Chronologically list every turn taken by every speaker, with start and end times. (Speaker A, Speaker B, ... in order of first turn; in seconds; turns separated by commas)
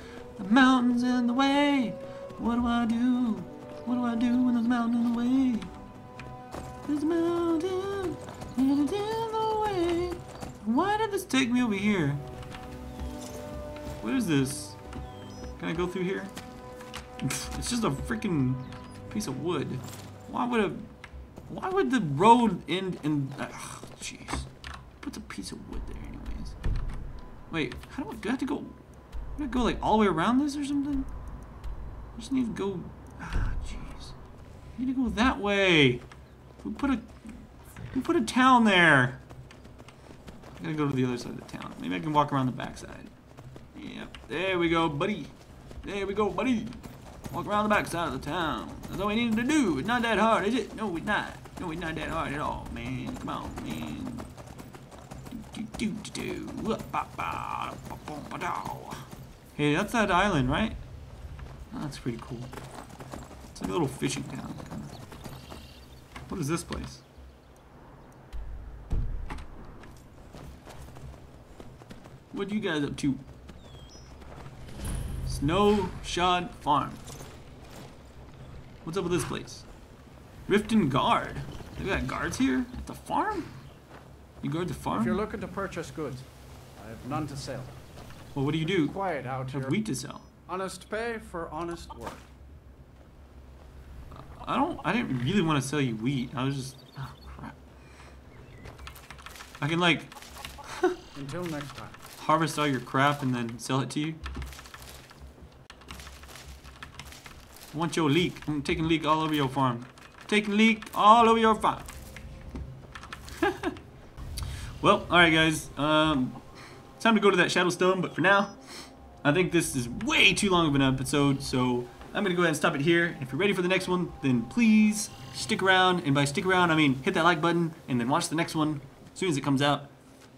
Speaker A: 0.4-5.7, Speaker A: 6.8-12.2, Speaker A: 14.0-14.8, Speaker A: 15.6-16.3, Speaker A: 17.2-20.8, Speaker A: 21.5-24.5, Speaker A: 25.0-26.5, Speaker A: 27.5-28.8, Speaker A: 29.4-31.1, Speaker A: 32.1-34.1, Speaker A: 34.8-36.0, Speaker A: 36.6-37.1, Speaker A: 37.9-39.2, Speaker A: 40.6-43.1, Speaker A: 43.7-46.8, Speaker A: 47.3-54.3, Speaker A: 55.3-60.8, Speaker A: 61.7-62.5, Speaker A: 63.5-64.9, Speaker A: 66.3-67.0, Speaker A: 72.3-73.2, Speaker A: 75.2-77.0, Speaker A: 78.8-79.6, Speaker A: 80.5-83.5, Speaker A: 84.4-85.2, Speaker B: 84.9-87.8, Speaker A: 88.3-90.2, Speaker B: 88.4-89.9, Speaker B: 90.5-92.2, Speaker A: 94.2-97.5, Speaker A: 99.6-100.1, Speaker A: 100.7-101.0, Speaker B: 101.1-102.0, Speaker A: 102.2-104.2, Speaker A: 107.7-111.9, Speaker A: 113.4-113.7, Speaker A: 114.8-116.4, Speaker A: 117.0-129.9